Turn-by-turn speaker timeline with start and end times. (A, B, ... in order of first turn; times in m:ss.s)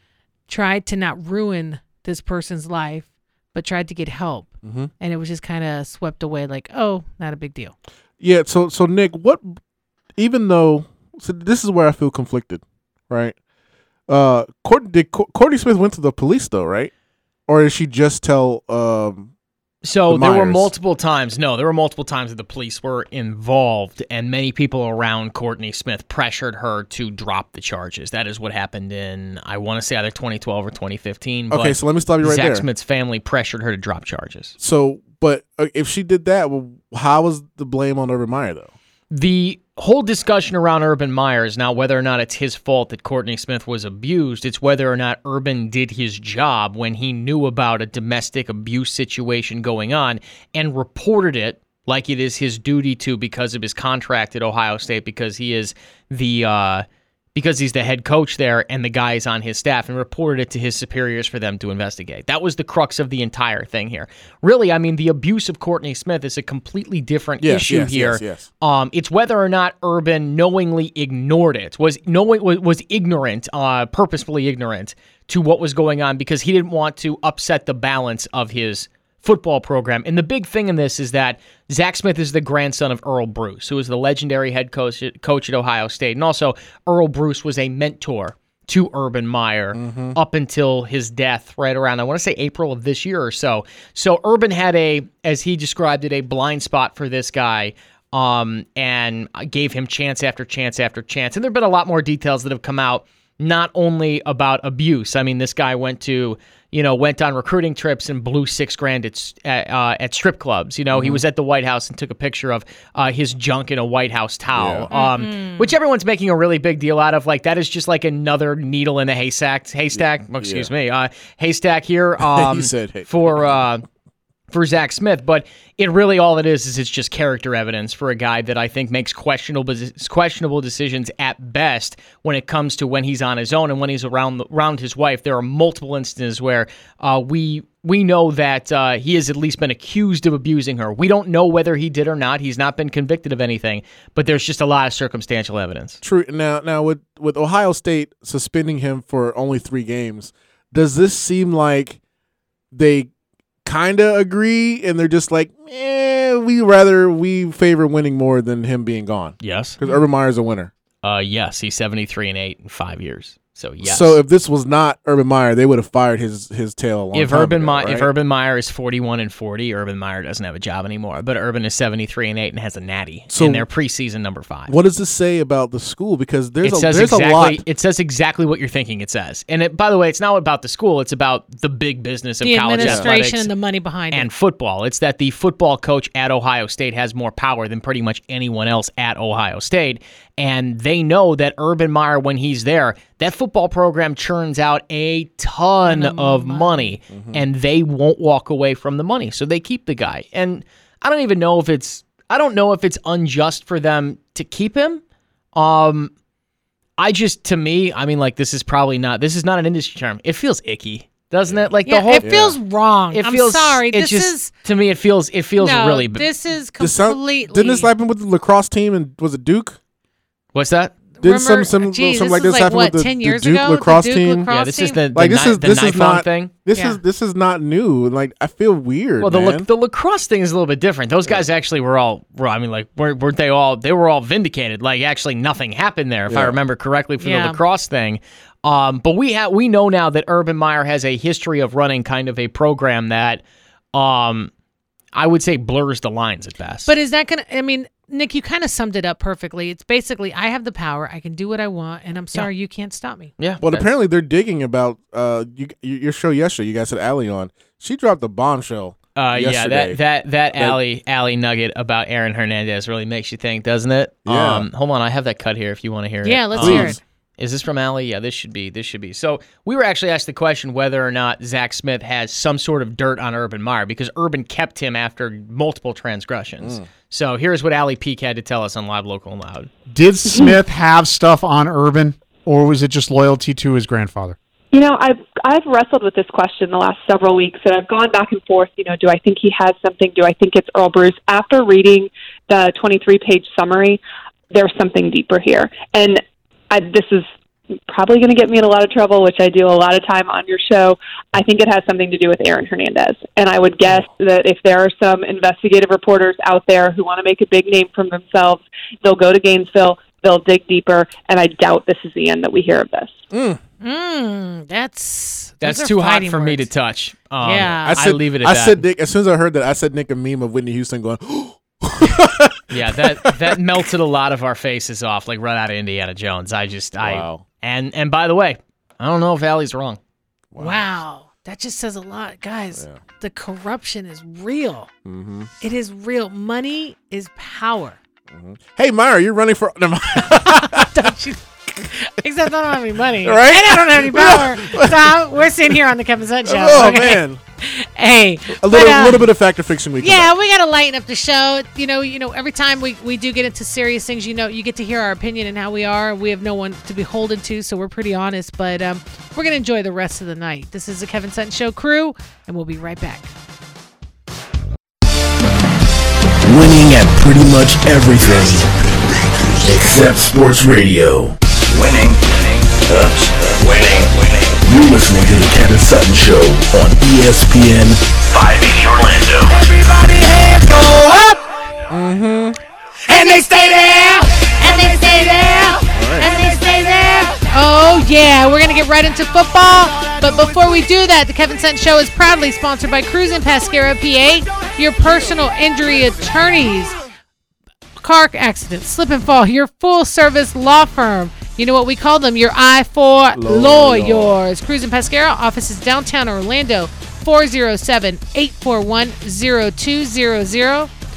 0:00.5-0:07.7 A
0:04.6-0:04.9 B
0:08.2-0:09.6 B
0:10.2-0:13.4 B
0:14.1-0:16.9 B
0:17.5-0:19.3 B
0:19.8-0:34.6 C
0:20.1-0:20.7 B
0:31.5-0:32.7 B
0:34.6-0:38.7 B
0:39.1-2:03.8 C
1:07.4-1:08.5 B
1:29.7-1:30.2 B
1:50.9-1:51.2 B
1:54.5-1:54.9 B
1:54.9-1:55.7 A
1:59.9-2:00.7 B
2:02.2-2:03.5 B
2:04.5-2:26.0 C
2:26.0-2:32.0 B
2:32.7-2:33.1 B
2:33.6-2:40.7 B
2:39.4-2:39.8 C
2:41.0-2:44.2 C
2:43.8-2:48.1 B
2:47.1-2:54.7 C
2:53.3-2:53.7 B
2:54.7-2:57.6 B
2:56.6-3:03.5 C
3:02.4-3:04.3 A
3:02.8-3:03.1 B
3:04.1-3:25.0 C
3:15.9-3:17.0 A
3:17.1-3:17.4 B
3:25.6-3:26.1 C
3:27.0-3:32.4 C
3:31.4-3:32.6 B
3:31.9-3:34.5 A
3:33.1-3:36.3 C
3:35.6-3:37.9 A
3:36.8-3:39.8 B
3:40.6-3:40.9 C
3:41.2-3:45.0 A
3:41.2-3:44.5 B
3:44.5-3:46.5 C
3:45.1-3:49.7 B
3:46.7-3:47.0 A
3:49.2-4:03.4 C
3:56.3-3:56.6 B
3:57.2-3:57.6 A
4:03.9-4:04.5 C
4:05.1-4:06.9 C
4:06.9-4:13.3 A
4:13.4-4:13.9 C
4:13.6-4:20.0 B
4:19.2-4:39.7 C
4:24.2-4:24.7 B
4:26.2-4:27.0 A
4:26.6-4:27.0 B
4:36.6-4:36.9 B
4:39.9-4:44.4 D
4:40.3-4:40.6 E
4:44.7-4:57.3 E
4:57.9-5:13.2 E
5:13.3-5:13.6 B
5:13.8-5:16.7 A
5:15.6-5:18.8 C
5:17.4-5:18.0 A
5:17.7-5:23.6 B
5:22.7-5:30.0 C
5:27.0-5:27.4 B
5:30.5-5:30.8 B
5:30.6-5:34.9 A
5:35.0-5:35.5 B
5:35.6-5:38.0 A
5:38.3-5:41.1 B
5:40.2-5:49.2 A
5:43.2-5:45.8 B
5:46.4-5:47.4 B
5:48.5-5:50.3 B
5:50.0-6:03.3 A
6:06.6-6:08.6 F
6:09.6-6:14.1 F
6:14.6-6:19.5 F
6:21.9-6:22.6 B
6:23.1-6:37.0 A
6:25.9-6:26.3 B
6:38.0-6:50.9 A
6:43.3-6:44.4 B